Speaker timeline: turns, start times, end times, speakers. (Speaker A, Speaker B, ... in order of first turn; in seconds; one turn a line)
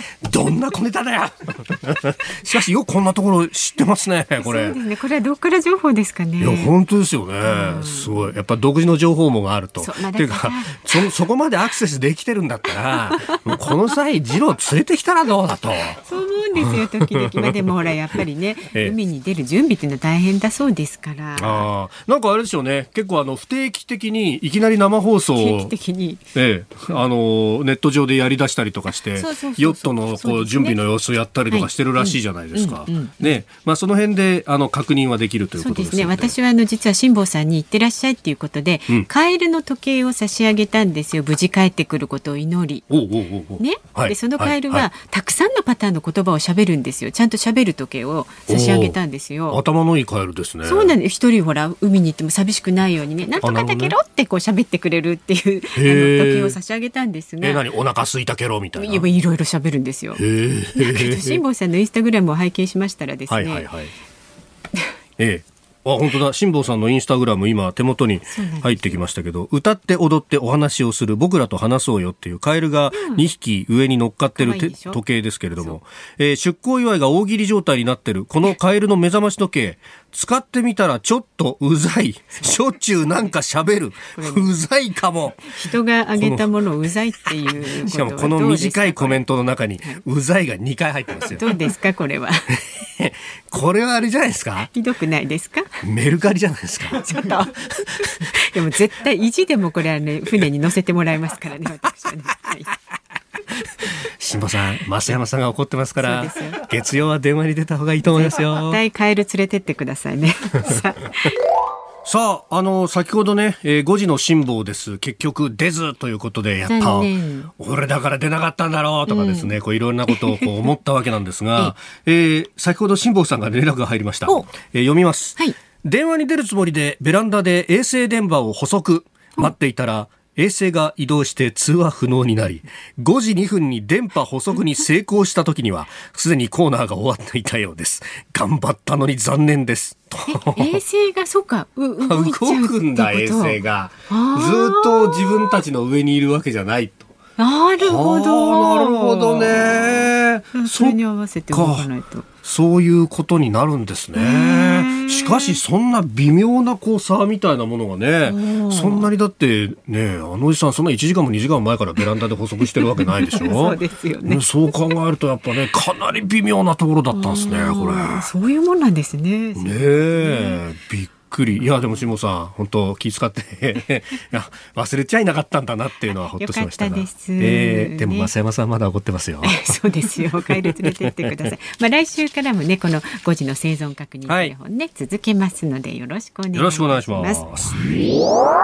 Speaker A: 0.2-4.8
Speaker B: 4.4-6.7
Speaker A: 6.4-16.0
Speaker B: 7.4-8.3
Speaker B: 9.8-11.1
Speaker B: 13.2-13.5
Speaker B: 16.0-21.7
Speaker A: 16.6-18.2
Speaker A: 21.4-25.7
Speaker B: 25.4-26.2
Speaker A: 26.3-36.3
Speaker B: 29.1-30.8
Speaker B: 31.5-33.4
Speaker B: 35.6-42.9
Speaker A: 42.9-44.9
Speaker B: 43.6-49.6
Speaker A: 48.5-49.0
Speaker A: 49.5-50.9
Speaker B: 50.6-57.6
Speaker A: 53.4-54.0
Speaker A: 55.8-56.6
Speaker A: 57.4-59.0
Speaker B: 58.8-60.2
Speaker A: 60.2-61.4
Speaker B: 60.7-63.7
Speaker A: 63.3-63.9
Speaker A: 65.2-86.5
Speaker B: 68.3-69.0
Speaker B: 72.9-73.2
Speaker B: 74.3-75.0
Speaker B: 82.3-83.3
Speaker B: 84.1-84.5
Speaker B: 85.4-89.2
Speaker A: 87.5-91.5
Speaker B: 91.2-92.5
Speaker A: 92.8-94.7
Speaker B: 94.7-95.7
Speaker A: 95.8-98.1
Speaker B: 97.0-102.7
Speaker A: 104.0-108.8
Speaker B: 106.0-106.6
Speaker B: 108.0-111.3
Speaker A: 112.0-140.8
Speaker B: 116.6-117.5
Speaker B: 119.1-119.5
Speaker B: 120.1-120.5
Speaker B: 140.2-145.6
Speaker A: 142.0-147.1
Speaker B: 147.4-152.3
Speaker A: 147.8-151.0
Speaker A: 151.5-151.9
Speaker A: 152.4-168.3
Speaker B: 154.2-155.6
Speaker B: 158.2-159.1
Speaker B: 163.0-164.4
Speaker B: 167.1-170.6
Speaker A: 169.6-181.3
Speaker B: 176.1-178.3
Speaker B: 179.4-187.4
Speaker A: 184.3-184.5
Speaker A: 186.5-187.7